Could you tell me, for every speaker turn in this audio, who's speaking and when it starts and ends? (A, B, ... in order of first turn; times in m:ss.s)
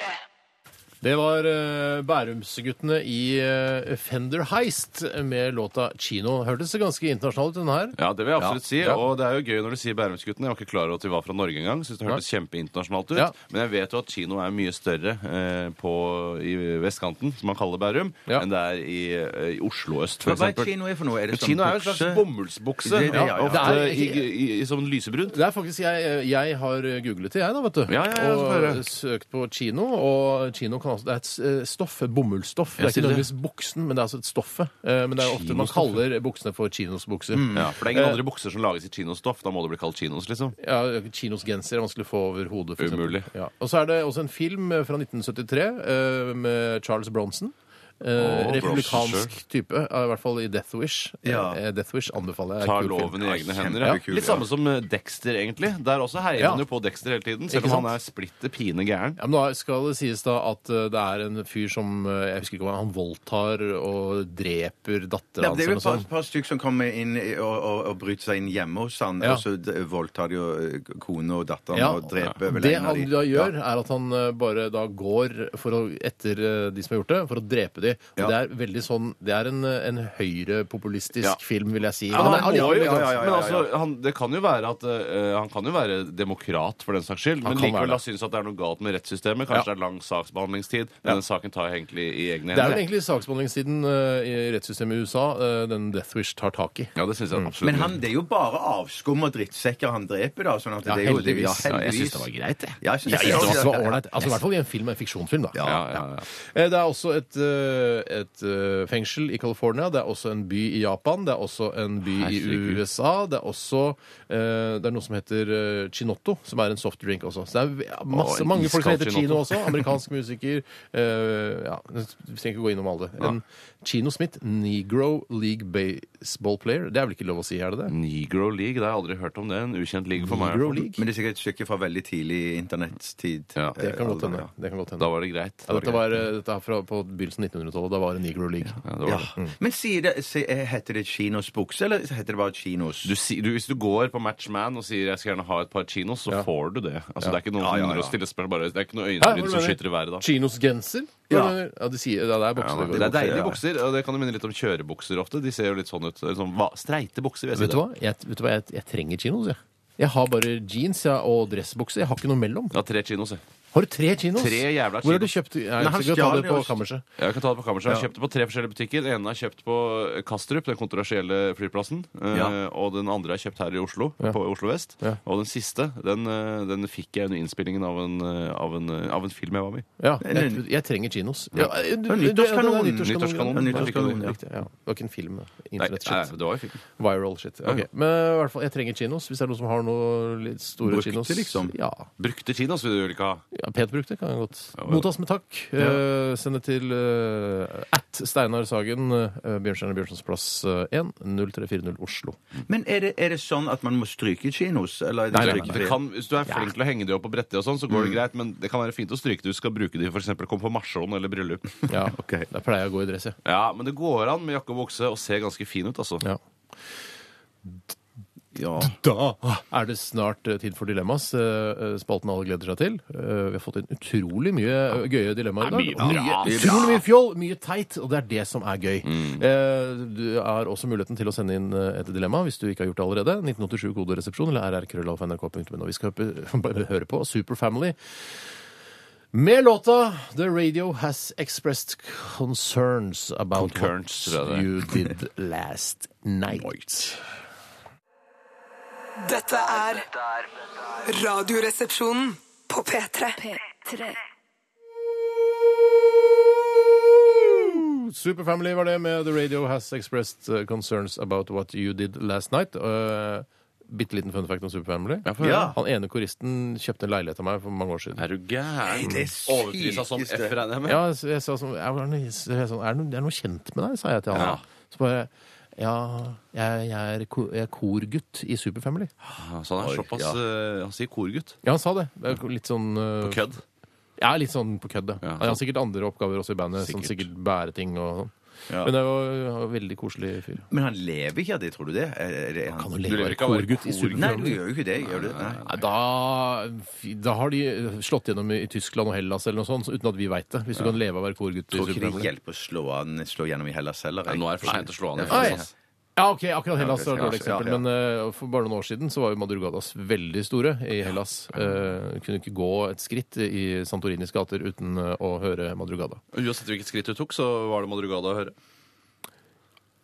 0:01.0-0:09.0 A
0:08.0-0:20.7 B
0:20.2-0:22.2 C
0:21.3-0:25.4 B
0:22.8-0:23.8 C
0:23.1-0:24.2 A
0:25.3-0:38.2 A
0:27.9-0:28.8 B
0:32.8-0:33.3 B
0:35.2-0:36.0 B
0:37.3-0:37.7 C
0:37.5-0:40.6 B
0:40.6-0:53.2 A
0:42.8-0:43.3 B
0:48.2-0:49.3 B
0:51.2-0:51.6 C
0:52.6-0:59.2 B
0:53.2-0:54.5 C
0:56.4-0:56.6 A
0:57.5-0:57.9 A
0:59.2-1:06.1 A
1:05.4-1:13.5 C
1:11.7-1:23.3 A
1:22.1-1:23.7 C
1:22.1-1:32.8 B
1:27.4-1:28.0 A
1:32.5-1:37.5 A
1:37.0-1:38.0 B
1:37.6-1:42.3 C
1:40.8-1:41.7 A
1:41.6-1:43.6 B
1:42.8-1:44.0 C
1:43.1-1:45.7 A
1:45.5-1:46.0 C
1:45.6-1:46.3 B
1:46.3-2:07.9 A
1:52.1-1:52.8 B
1:58.1-1:59.9 B
2:07.9-2:10.8 B
2:10.2-2:11.0 A
2:11.0-2:14.5 C
2:13.8-2:15.1 A
2:15.0-2:16.0 B
2:15.7-2:18.8 A
2:18.8-2:19.3 B
2:19.0-2:23.1 C
2:23.0-2:30.2 B
2:27.6-2:28.2 C
2:29.2-2:33.6 A
2:31.3-2:31.6 C
2:32.6-2:37.8 B
2:32.9-2:33.6 C
2:37.6-2:42.8 A
2:42.7-2:43.4 B
2:43.7-2:47.0 A
2:44.4-2:45.3 B
2:45.8-2:46.8 C
2:47.2-2:59.9 B
3:00.0-3:06.3 A
3:00.2-3:00.6 C
3:01.6-3:04.4 C
3:03.0-3:04.3 B
3:05.8-3:06.8 B
3:07.0-3:12.1 A
3:10.8-3:11.8 C
3:12.2-3:13.4 B
3:13.5-3:22.4 A
3:14.8-3:15.0 B
3:22.7-3:26.0 C
3:25.3-3:25.8 A
3:25.4-3:31.8 B
3:27.9-3:28.2 C
3:31.9-3:33.4 A
3:32.1-3:32.5 C
3:33.4-3:36.2 B
3:38.6-3:38.9 C
3:38.8-3:58.0 A
3:45.6-3:46.9 B
3:46.0-3:47.0 C
3:49.0-3:49.4 B
3:59.3-4:07.2 A
4:03.6-4:04.7 B
4:09.2-4:10.2 D
4:10.9-4:14.2 D
4:17.3-4:28.2 A
4:25.2-4:25.7 B
4:25.4-4:25.8 C
4:28.2-4:31.0 B
4:28.8-4:30.6 C
4:30.9-4:39.1 A
4:34.3-4:34.6 B
4:39.4-4:41.6 B
4:39.8-4:40.4 C
4:41.6-4:43.4 A
4:43.2-4:43.6 B
4:44.2-4:50.6 A
4:45.2-4:45.6 B
4:46.8-4:47.3 B
4:50.7-4:52.9 C
4:52.8-4:54.6 A
4:53.0-4:55.8 B
4:54.1-4:55.6 C
4:55.7-5:02.3 A
5:01.7-5:05.7 C
5:04.3-5:05.7 B
5:05.3-5:05.6 A
5:06.2-5:16.2 A
5:06.8-5:07.8 C
5:16.3-5:18.6 B